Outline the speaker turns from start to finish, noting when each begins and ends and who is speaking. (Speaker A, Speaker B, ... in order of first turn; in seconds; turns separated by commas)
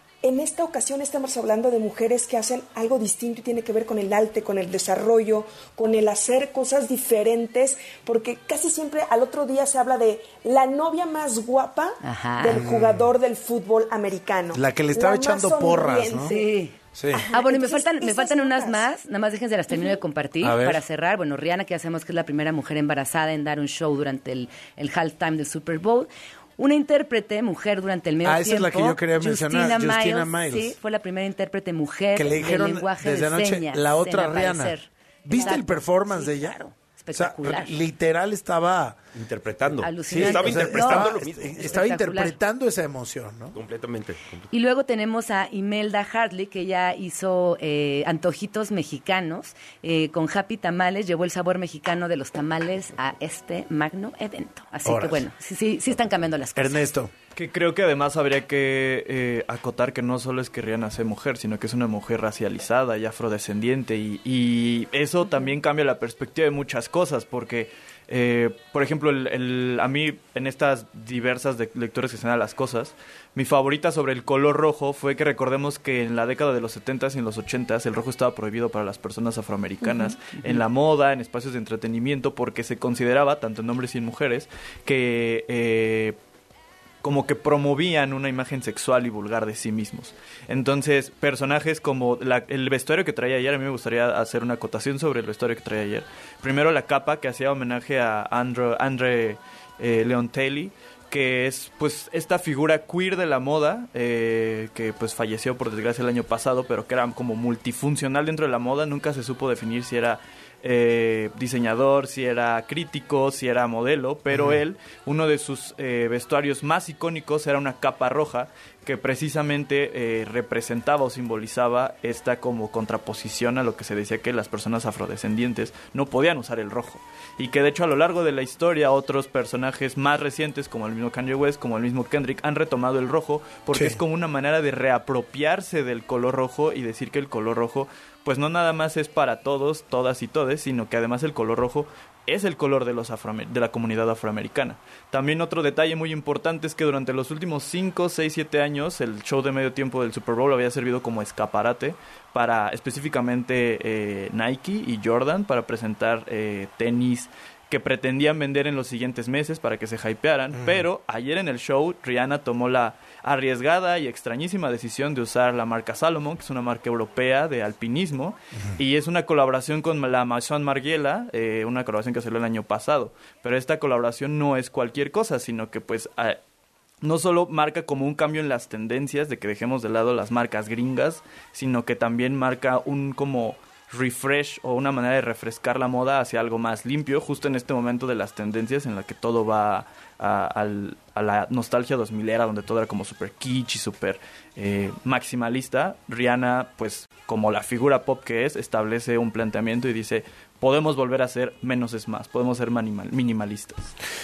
Speaker A: 0.2-16.5, Speaker B: 12.0-12.6, Speaker C: 12.6-13.1, Speaker C: 14.5-16.3, Speaker B: 16.2-16.8, Speaker C: 16.9-17.2, Speaker A: 17.1-18.9, Speaker B: 17.3-37.7, Speaker C: 20.4-20.8, Speaker C: 28.2-30.8, Speaker C: 32.1-36.6, Speaker C: 37.1-39.0, Speaker D: 39.1-41.6, Speaker B: 39.8-42.3, Speaker C: 40.1-43.5, Speaker D: 43.5-44.5, Speaker B: 44.5-56.9, Speaker C: 54.8-55.2, Speaker C: 56.5-57.1, Speaker E: 57.4-86.2, Speaker E: 87.0-176.4, Speaker C: 114.3-114.6, Speaker C: 133.7-134.0, Speaker C: 160.5-160.8, Speaker E: 177.0-203.9